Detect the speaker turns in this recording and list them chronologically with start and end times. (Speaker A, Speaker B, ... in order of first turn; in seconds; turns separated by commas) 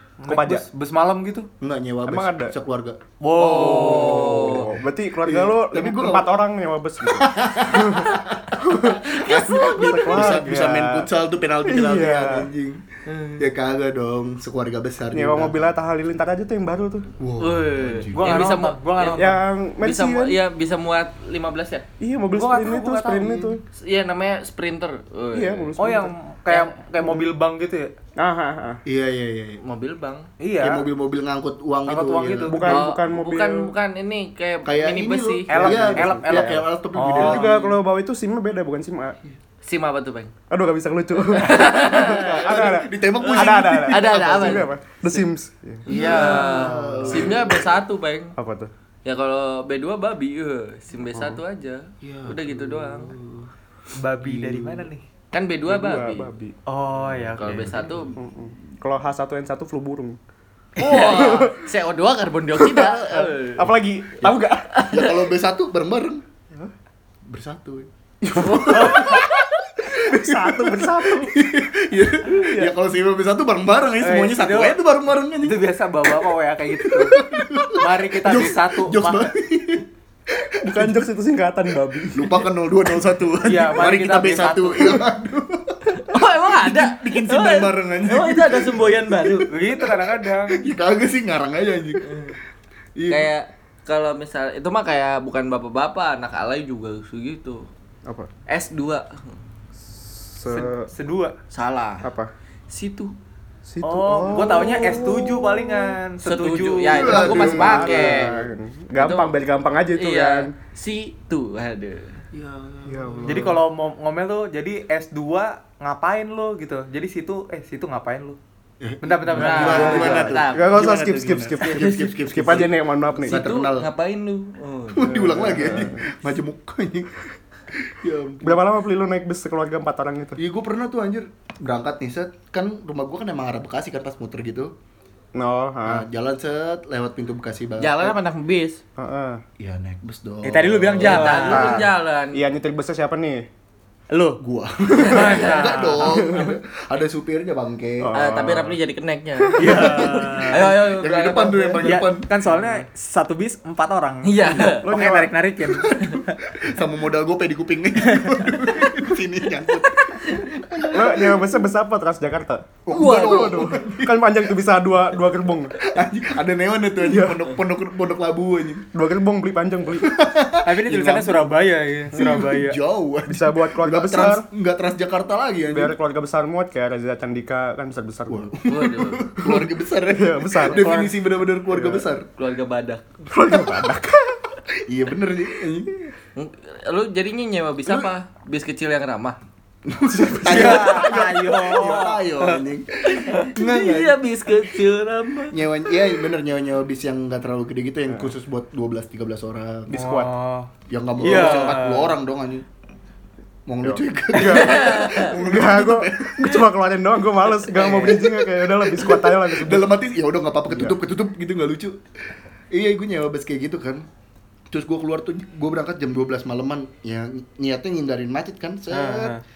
Speaker A: 0.2-1.5, Speaker B: 0.3-0.6, Speaker C: 1.6-3.0, Speaker B: 2.0-2.5, Speaker A: 3.2-4.4, Speaker D: 3.4-4.7, Speaker B: 3.5-9.2, Speaker C: 3.5-4.7, Speaker C: 5.2-6.3, Speaker C: 7.1-12.8, Speaker D: 9.3-10.4, Speaker B: 9.7-11.1, Speaker B: 11.6-12.5, Speaker D: 13.1-13.5, Speaker C: 13.4-15.7, Speaker B: 15.1-17.1, Speaker C: 17.2-18.6, Speaker D: 17.4-19.3, Speaker A: 18.1-19.4, Speaker B: 19.1-20.4, Speaker D: 19.8-21.9, Speaker B: 22.0-23.6, Speaker A: 22.4-23.6, Speaker D: 23.7-25.7, Speaker B: 25.3-26.1, Speaker A: 25.8-27.9, Speaker D: 26.5-26.8, Speaker B: 28.1-28.8, Speaker C: 28.9-29.6, Speaker D: 29.6-30.3, Speaker A: 30.4-30.8, Speaker C: 30.6-32.6, Speaker A: 31.9-32.8, Speaker B: 32.5-33.7, Speaker D: 32.7-35.7, Speaker C: 34.6-37.6, Speaker A: 35.5-37.4, Speaker B: 35.7-36.5, Speaker B: 37.1-39.2, Speaker D: 39.6-40.3, Speaker B: 40.5-45.9, Speaker D: 41.3-45.2, Speaker C: 41.9-44.6, Speaker D: 45.9-48.3, Speaker C: 45.9-47.7, Speaker A: 45.9-46.8, Speaker B: 47.1-47.4, Speaker B: 48.4-48.7, Speaker D: 49.0-53.1, Speaker B: 51.1-51.4, Speaker C: 52.0-53.5, Speaker A: 54.0-55.0, Speaker C: 54.2-54.9, Speaker D: 55.3-56.3, Speaker B: 55.7-56.5, Speaker A: 56.7-57.9, Speaker D: 57.3-58.1, Speaker C: 57.7-58.1, Speaker B: 58.1-60.2, Speaker C: 60.8-61.4, Speaker D: 60.8-63.7, Speaker B: 60.8-61.6, Speaker B: 62.6-64.9, Speaker D: 64.2-65.3, Speaker C: 64.9-66.2, Speaker C: 67.2-69.3, Speaker B: 68.2-69.2, Speaker D: 68.3-69.6, Speaker C: 69.8-75.6, Speaker B: 69.8-71.4, Speaker B: 72.3-72.7, Speaker A: 74.0-74.8, Speaker A: 75.3-77.2, Speaker C: 76.8-81.0, Speaker A: 77.8-79.3, Speaker B: 80.6-82.5, Speaker C: 82.1-92.2, Speaker A: 83.4-85.0, Speaker D: 86.0-89.5, Speaker A: 89.5-90.6, Speaker D: 92.0-92.3, Speaker C: 93.0-93.3, Speaker D: 93.1-97.7, Speaker D: 98.5-99.4, Speaker B: 100.0-100.9, Speaker A: 100.5-101.3, Speaker D: 101.5-102.1, Speaker B: 102.0-102.3, Speaker D: 102.7-103.1, Speaker B: 103.7-105.9, Speaker A: 103.8-107.7, Speaker D: 106.2-108.4, Speaker C: 106.9-108.2, Speaker B: 107.0-110.5, Speaker D: 109.0-109.3, Speaker D: 109.9-112.2, Speaker C: 112.3-113.5, Speaker B: 112.8-113.6, Speaker A: 113.2-118.4, Speaker C: 118.8-123.9, Speaker A: 119.0-120.3, Speaker D: 119.3-122.7, Speaker B: 119.6-123.4, Speaker D: 123.2-125.8, Speaker C: 124.9-128.6, Speaker B: 125.0-126.0, Speaker B: 128.4-130.4, Speaker C: 130.4-134.7, Speaker B: 135.3-136.1, Speaker C: 135.8-138.2, Speaker D: 137.8-138.8, Speaker B: 139.0-139.4, Speaker C: 139.6-141.7, Speaker A: 140.4-141.8, Speaker D: 141.0-142.4, Speaker B: 141.3-143.4, Speaker A: 144.1-144.4, Speaker C: 144.4-148.1, Speaker D: 145.0-146.2, Speaker A: 145.0-146.2, Speaker B: 146.0-146.5, Speaker B: 148.0-148.8, Speaker D: 148.1-152.0, Speaker B: 149.4-150.3, Speaker A: 149.6-150.6, Speaker C: 149.6-152.3, Speaker A: 151.8-156.3, Speaker D: 154.2-154.9, Speaker B: 154.6-155.3, Speaker C: 155.7-161.4, Speaker D: 160.2-161.0, Speaker B: 160.9-165.8, Speaker C: 162.8-164.2, Speaker D: 162.9-163.8, Speaker C: 165.8-168.9, Speaker B: 167.0-167.4, Speaker B: 168.9-170.2, Speaker C: 170.0-171.5, Speaker A: 170.6-172.8, Speaker C: 172.1-175.9, Speaker B: 173.3-174.5, Speaker B: 175.7-178.5, Speaker C: 178.3-182.3, Speaker D: 178.7-179.3, Speaker B: 179.4-181.1, Speaker B: 181.7-182.1, Speaker D: 182.4-183.0, Speaker B: 183.3-184.4, Speaker C: 183.5-183.9, Speaker C: 184.8-186.1, Speaker D: 186.3-189.3, Speaker C: 189.8-194.2, Speaker B: 190.1-190.9, Speaker A: 190.4-192.5, Speaker D: 193.1-196.3, Speaker C: 195.5-200.0, Speaker B: 199.9-200.3, Speaker A: 199.9-202.1, Speaker C: 200.9-202.6, Speaker C: 203.7-206.6, Speaker B: 203.8-209.9, Speaker D: 204.3-205.3, Speaker C: 207.6-212.0, Speaker A: 207.8-208.1, Speaker B: 210.7-211.0, Speaker C: 212.7-214.1, Speaker C: 214.7-219.4, Speaker A: 218.9-219.4